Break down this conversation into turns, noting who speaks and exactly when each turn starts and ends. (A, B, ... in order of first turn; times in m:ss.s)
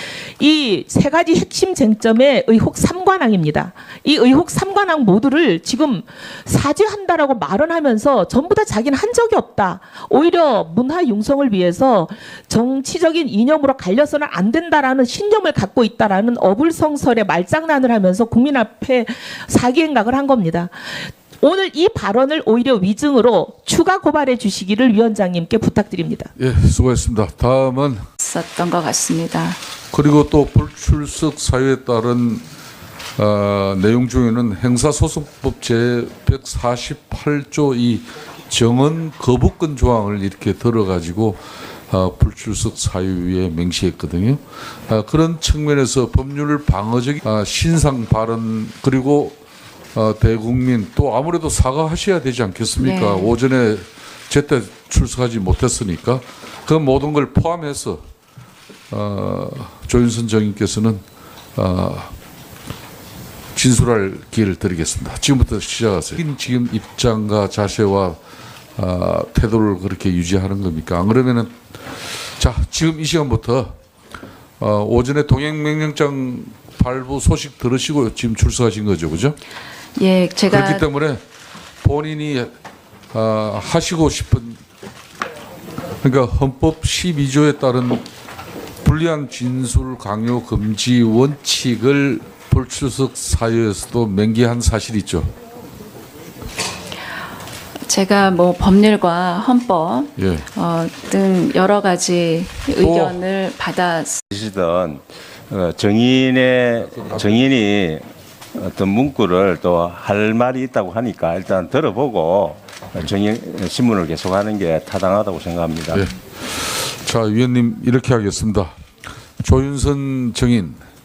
0:00.4-0:26.3 A
0:26.4-0:28.1 B
0:28.2-0:29.6 C
0:29.9-0:32.4 B
0:33.2-0:49.4 B
0:49.9-0:58.0 B
0:52.8-0:53.3 C
0:58.9-1:01.0 B
1:01.5-1:02.1 B
1:03.5-1:08.2 B
1:08.8-1:11.5 B
1:12.2-1:13.7 B
1:14.6-1:19.4 B
1:20.0-1:20.8 C
1:20.5-1:21.2 B
1:21.8-1:22.5 B
1:23.1-1:24.6 B
1:26.0-1:28.0 B
1:28.8-1:35.3 B
1:37.9-1:44.2 C
1:40.2-1:40.5 B
1:42.8-1:43.2 B
1:44.3-1:56.1 D
1:55.9-1:58.7 B
1:59.4-2:00.8 B